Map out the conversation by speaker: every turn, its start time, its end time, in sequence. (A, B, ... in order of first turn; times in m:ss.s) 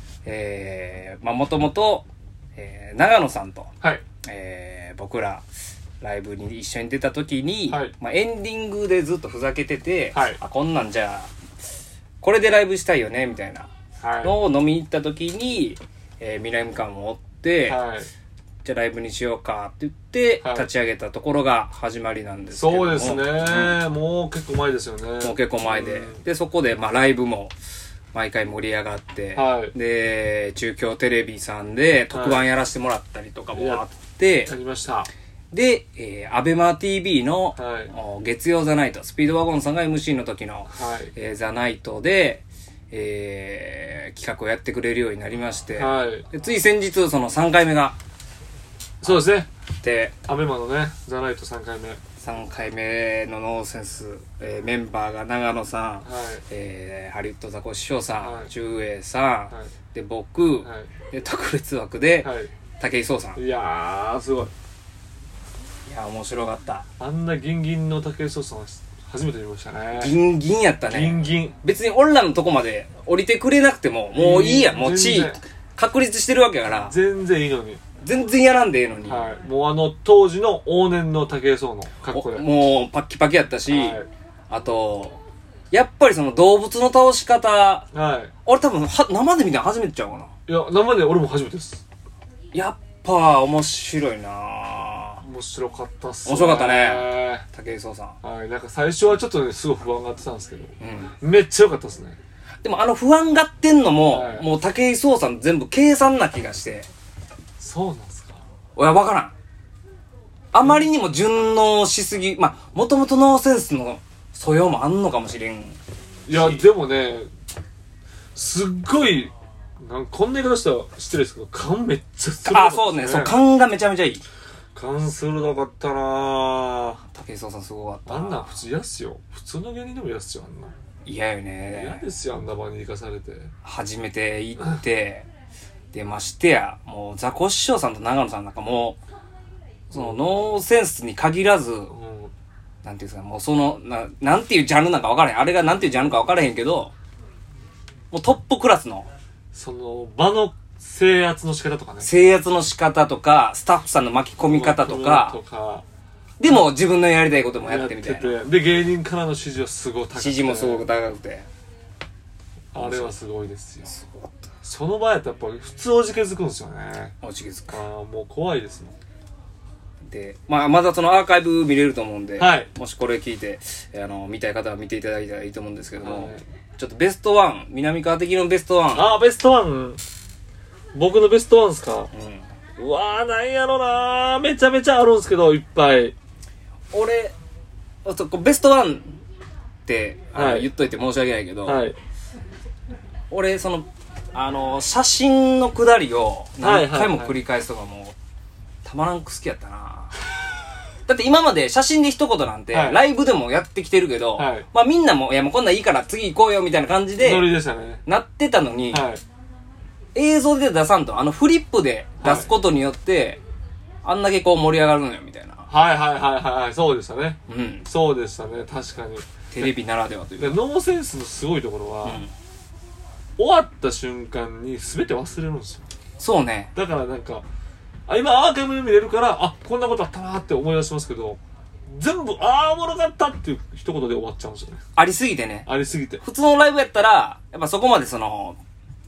0:00.2-0:03.7 A
0:04.2-0:05.4 A
0:06.0-0:11.3 A
0:10.1-0:10.4 B
0:12.2-0:13.7 A
0:14.0-0:14.4 B
0:14.2-0:17.8 A
0:17.7-0:18.1 B
0:18.6-0:23.8 A
0:20.4-0:20.7 B
0:22.5-0:26.2 B
0:25.2-0:27.5 A
0:28.1-0:34.5 A
0:29.3-0:29.7 B
0:32.1-0:32.4 B
0:33.5-0:33.8 B
0:34.4-0:35.1 B
0:35.5-0:48.0 A
0:37.6-0:37.9 B
0:40.7-0:41.1 B
0:45.7-0:46.3 B
0:49.0-0:49.5 B
0:49.0-0:50.2 A
0:50.3-0:52.0 B
0:52.2-1:03.4 A
0:56.0-0:56.4 B
0:58.2-0:58.5 B
1:00.6-1:00.9 B
1:02.2-1:02.5 B
1:03.3-1:04.5 B
1:05.8-1:06.8 A
1:07.0-1:10.2 B
1:09.9-1:16.9 A
1:10.9-1:11.6 B
1:14.1-1:15.4 B
1:16.8-1:17.8 B
1:18.0-1:19.3 A
1:19.1-1:22.5 B
1:22.1-1:25.2 A
1:23.7-1:24.1 B
1:25.7-1:27.9 A
1:27.9-1:28.3 B
1:28.4-1:30.3 A
1:30.5-1:31.8 B
1:32.5-1:35.2 A
1:35.2-1:37.4 B
1:36.2-1:38.2 A
1:38.2-1:42.2 B
1:40.8-1:41.1 A
1:42.6-1:46.9 A
1:44.1-1:44.5 B
1:47.6-1:48.4 B
1:48.8-1:49.3 A
1:50.5-1:55.8 A
1:56.3-1:57.3 B
1:58.3-2:03.4 B
2:02.5-2:04.2 A
2:04.7-2:07.0 B
2:07.1-2:08.6 A
2:08.1-2:10.7 B
2:11.0-2:12.0 A
2:11.7-2:13.5 B
2:13.6-2:15.3 A
2:15.9-2:19.0 A
2:19.9-2:20.5 B
2:19.9-2:21.9 A
2:21.9-2:22.3 B
2:22.8-2:26.9 A
2:28.1-2:29.1 A
2:29.5-2:32.1 B
2:32.0-2:35.4 A
2:34.4-2:35.8 B
2:36.4-2:38.4 A
2:37.6-2:40.8 B
2:40.1-2:41.5 A
2:42.7-2:43.9 B
2:42.8-2:43.2 A
2:43.8-2:44.4 A
2:44.6-2:47.2 B
2:47.2-2:47.8 A
2:47.7-2:48.9 B
2:50.1-2:59.1 A
2:52.4-2:52.7 B
2:56.0-2:56.4 B
2:58.9-3:00.0 B
3:00.9-3:02.1 B
3:02.1-3:02.5 A
3:02.8-3:06.1 B
3:06.9-3:07.3 A
3:08.0-3:09.2 A
3:09.8-3:11.8 A
3:10.3-3:10.7 B
3:11.6-3:12.0 B
3:13.3-3:18.1 A
3:16.6-3:17.4 B
3:18.8-3:20.2 A
3:21.1-3:27.5 A
3:22.7-3:23.0 B
3:24.4-3:24.7 B
3:27.2-3:28.0 B
3:28.0-3:29.1 A
3:28.9-3:29.2 B
3:30.1-3:33.4 A
3:32.2-3:32.5 B
3:34.0-3:35.7 A
3:35.7-3:39.7 B
3:37.5-3:37.9 A
3:39.5-3:40.6 A
3:40.4-3:42.2 B
3:42.0-3:42.3 A
3:43.4-3:45.8 B
3:46.2-3:46.7 A
3:46.7-3:47.4 B
3:48.1-3:54.8 B
3:55.0-3:55.7 A
3:55.6-3:56.2 B
3:56.2-3:58.6 A